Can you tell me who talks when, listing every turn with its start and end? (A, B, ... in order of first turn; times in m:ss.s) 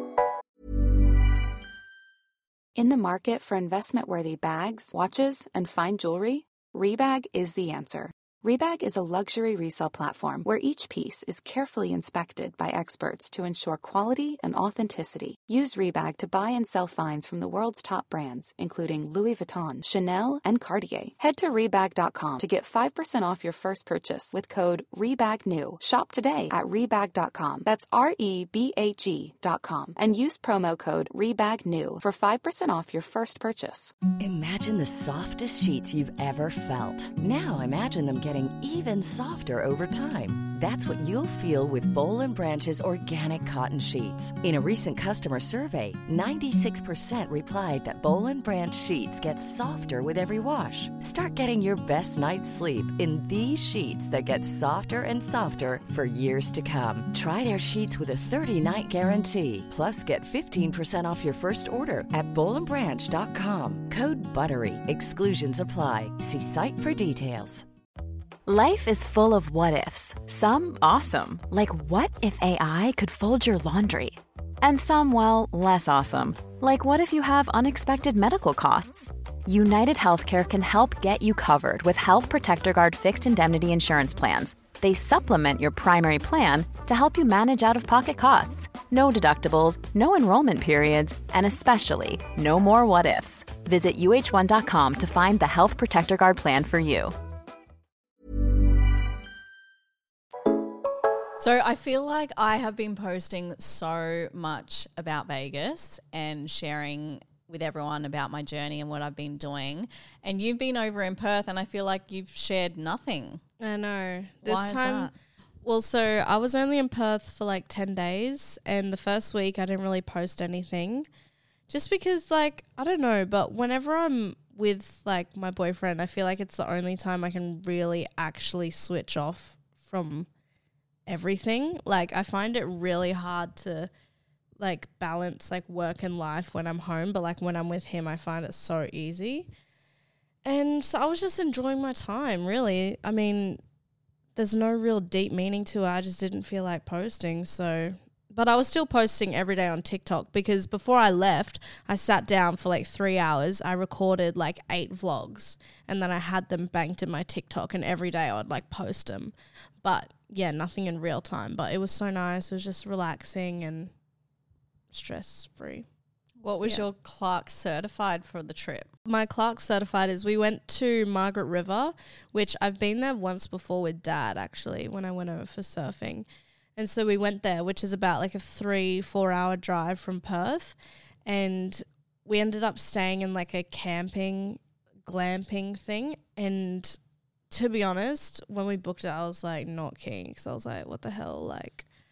0:02.8-0:33.9 A
0:34.2-1:07.6 B
1:08.4-1:37.1 C
1:41.4-1:53.4 D
1:53.6-1:55.1 E
1:54.4-1:55.1 D
1:55.6-2:01.1 E
2:01.7-2:10.3 E
2:11.1-2:13.9 E
2:14.6-2:19.5 E
2:20.4-2:23.6 E
2:24.4-2:43.9 E
2:44.9-2:45.8 E
2:46.4-2:48.9 D
2:49.1-3:07.0 E
3:07.5-3:11.9 E